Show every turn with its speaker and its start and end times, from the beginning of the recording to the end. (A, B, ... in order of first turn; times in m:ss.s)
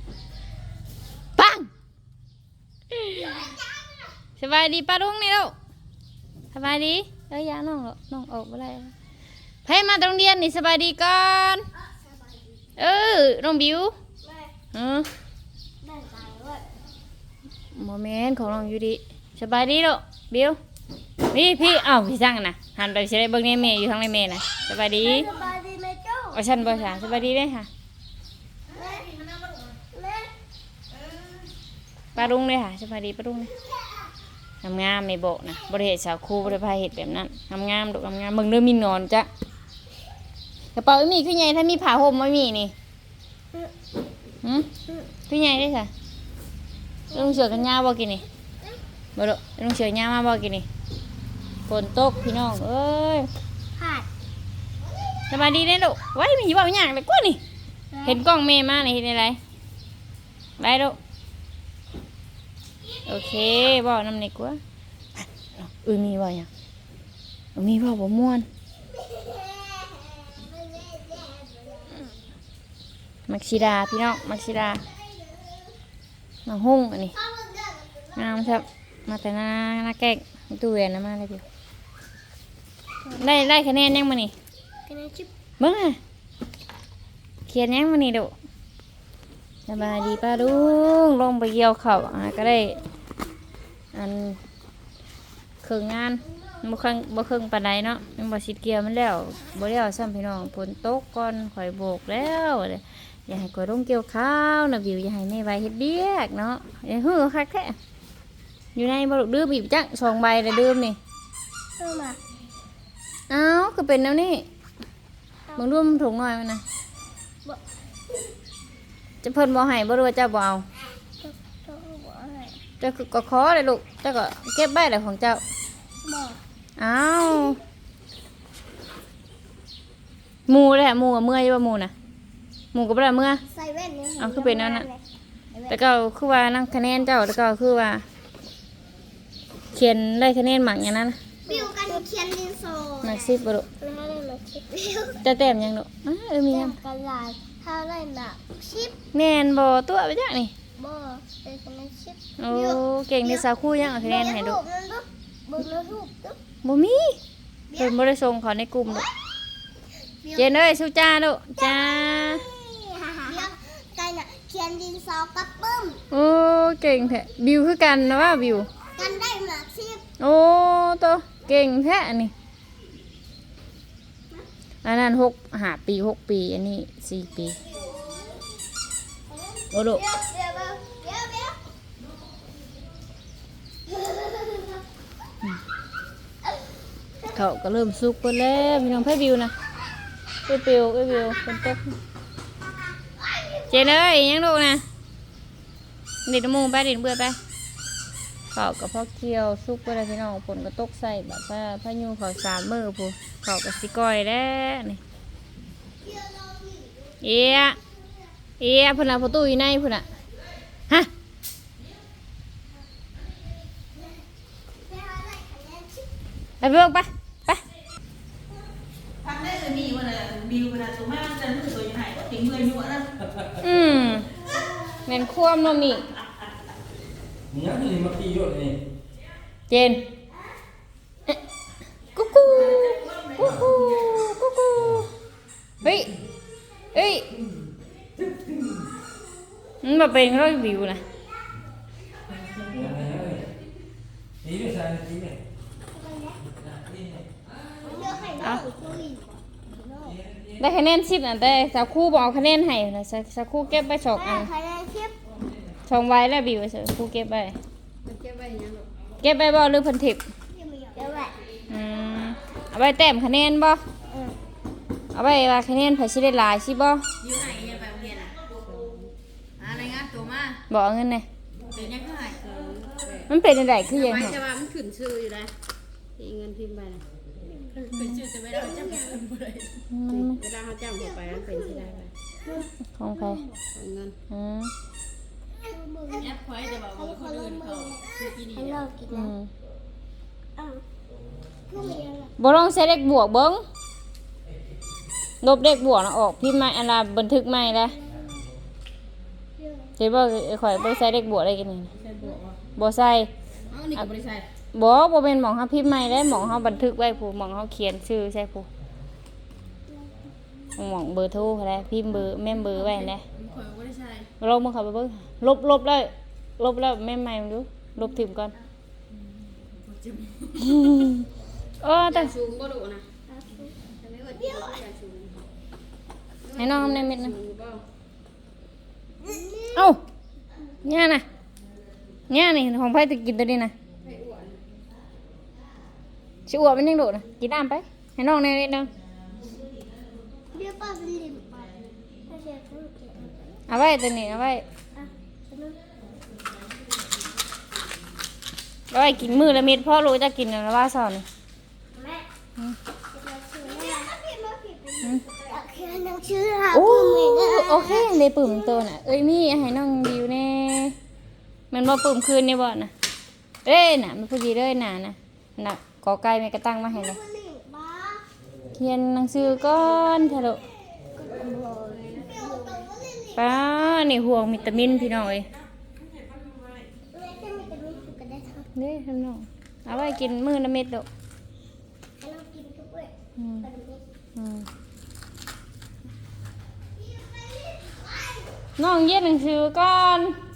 0:01.4-0:01.7 A
0:02.9-0:03.6 A
0:03.4-0:03.9 B
0:04.4-0:05.6 A
0:06.5-0:08.9 A
0:09.6-0:11.6 A
0:11.9-0:12.6 B
0:12.8-0:14.0 A
0:14.2-0:14.5 B
0:14.7-0:15.1 A
0:15.8-0:16.7 B
0:17.7-0:20.6 A
0:21.3-0:25.3 A
0:25.0-0:27.0 B
0:26.3-0:27.7 A
0:28.7-0:29.1 B
0:29.9-0:30.3 B
0:32.2-0:33.5 A
0:34.6-0:39.3 A
0:40.8-0:42.7 A
0:44.4-0:44.7 A
0:45.3-0:45.9 A
0:47.1-0:47.6 B
0:47.1-0:48.2 A
0:49.2-0:50.7 A
0:51.7-0:53.3 A
0:53.8-0:54.1 B
0:55.3-0:57.4 A
0:57.9-0:58.2 B
0:58.0-0:59.4 A
1:00.6-1:01.0 A
1:03.1-1:04.6 A
1:05.2-1:06.5 A
1:07.6-1:08.5 A
1:08.9-1:12.1 B
1:13.3-1:14.8 A
1:14.8-1:15.7 B
1:16.5-1:17.2 A
1:17.2-1:18.6 B
1:18.2-1:21.4 A
1:23.2-1:24.3 A
1:24.9-1:25.3 B
1:25.6-1:26.0 A
1:27.5-1:28.3 A
1:29.7-1:32.8 A
1:33.9-1:34.4 A
1:35.6-1:47.8 A
1:48.8-1:51.0 A
1:51.8-1:52.2 B
1:53.3-1:54.4 A
1:55.6-1:56.6 A
1:59.2-2:00.6 A
2:01.2-2:02.6 B
2:02.8-2:05.4 A
2:06.0-2:06.4 B
2:06.8-2:07.6 A
2:10.5-2:11.9 A
2:12.7-2:13.4 A
2:13.5-2:15.0 B
2:14.2-2:14.9 A
2:15.7-2:18.0 A
2:19.7-2:21.2 A
2:21.5-2:25.2 B
2:23.0-2:23.7 A
2:25.2-2:26.8 A
2:26.5-2:29.0 B
2:29.1-2:30.5 A
2:30.8-2:36.4 B
2:32.4-2:34.6 A
2:36.6-2:37.2 A
2:37.8-2:39.1 A
2:40.4-2:42.4 A
2:41.6-2:46.0 B
2:46.1-2:48.7 A
2:49.0-2:50.0 B
2:50.2-2:52.3 A
2:54.8-2:57.6 A
2:57.5-2:58.4 B
2:59.3-3:01.6 B
2:59.7-3:00.0 A
3:03.9-3:04.7 B
3:07.3-3:09.5 A
3:10.5-3:12.0 A
3:13.3-3:13.7 B
3:13.7-3:14.8 A
3:16.3-3:17.4 A
3:18.5-3:25.0 A
3:26.0-3:28.1 B
3:27.2-3:27.8 A
3:28.6-3:30.0 A
3:34.9-3:36.1 B
3:36.6-3:37.6 A
3:39.2-3:43.1 C
3:43.6-3:44.4 A
3:44.5-3:45.0 B
3:45.0-3:46.1 A
3:47.5-3:48.8 D
3:49.7-3:50.0 A
3:52.1-3:55.1 A
3:52.4-3:53.6 C
3:53.4-3:53.7 D
3:54.8-3:55.1 D
3:55.8-3:56.1 A
3:56.9-3:57.3 A
3:58.2-3:58.9 D
3:59.8-4:01.0 A
4:02.6-4:03.5 D
4:04.4-4:05.4 D
4:05.9-4:06.4 B
4:06.7-4:07.2 D
4:07.8-4:10.2 B
4:10.6-4:14.5 A
4:14.2-4:15.2 B
4:15.9-4:17.6 A
4:18.1-4:18.8 E
4:18.1-4:18.8 C
4:19.2-4:20.2 A
4:20.5-4:21.4 B
4:21.7-4:23.8 A
4:24.1-4:24.4 B
4:25.1-4:27.0 A
4:27.2-4:29.0 C
4:29.6-4:30.6 C
4:30.7-4:31.3 A
4:31.7-4:33.2 C
4:32.5-4:32.9 E
4:33.3-4:34.4 A
4:34.2-4:35.5 E
4:36.2-4:37.0 E
4:37.8-4:39.7 C
4:37.9-4:38.2 A
4:38.5-4:39.2 B
4:38.7-4:39.6 E
4:39.9-4:40.4 A
4:40.4-4:42.0 E
4:40.6-4:41.9 C
4:41.1-4:42.7 B
4:43.0-4:43.4 A
4:43.8-4:44.1 C
4:43.8-4:44.1 E
4:44.3-4:44.7 A
4:45.6-4:49.3 B
4:46.1-4:48.6 C
4:48.4-4:48.8 E
4:49.1-4:49.5 A
4:50.6-4:50.8 B
4:51.7-4:52.3 B
4:52.4-4:53.6 A
4:55.4-4:58.0 A
4:59.6-4:59.9 B
5:00.0-5:01.9 A
5:02.0-5:02.6 C
5:02.8-5:03.3 A
5:03.7-5:04.2 E
5:03.8-5:04.4 C
5:04.7-5:08.7 A
5:10.8-5:13.2 A
5:13.4-5:14.3 C
5:14.4-5:18.5 A
5:19.9-5:20.4 C
5:20.6-5:21.2 A
5:21.8-5:22.3 A
5:22.1-5:23.0 E
5:23.3-5:23.8 B
5:24.0-5:25.4 E
5:24.1-5:24.8 C
5:24.5-5:24.8 B
5:26.6-5:27.4 A
5:26.8-5:27.8 E
5:29.2-5:29.9 B
5:29.7-5:30.0 A
5:30.8-5:31.2 A
5:32.3-5:33.7 A
5:34.0-5:34.5 E
5:34.2-5:34.6 C
5:36.5-5:38.9 A
5:40.5-5:41.7 B
5:42.3-5:43.5 B
5:43.7-5:44.6 A
5:45.0-5:45.8 B
5:48.9-5:51.2 A
5:51.9-5:52.3 B
5:53.1-5:58.2 B
5:56.7-6:01.0 A
6:01.7-6:02.9 A
6:03.6-6:07.2 A
6:06.9-6:08.2 B
6:08.8-6:10.6 A
6:11.2-6:13.6 B
6:13.4-6:15.5 A
6:17.1-6:18.7 B
6:18.8-6:21.1 A
6:22.2-6:24.0 B
6:23.4-6:23.7 A
6:24.4-6:24.7 A
6:27.0-6:28.6 B
6:28.8-6:30.4 A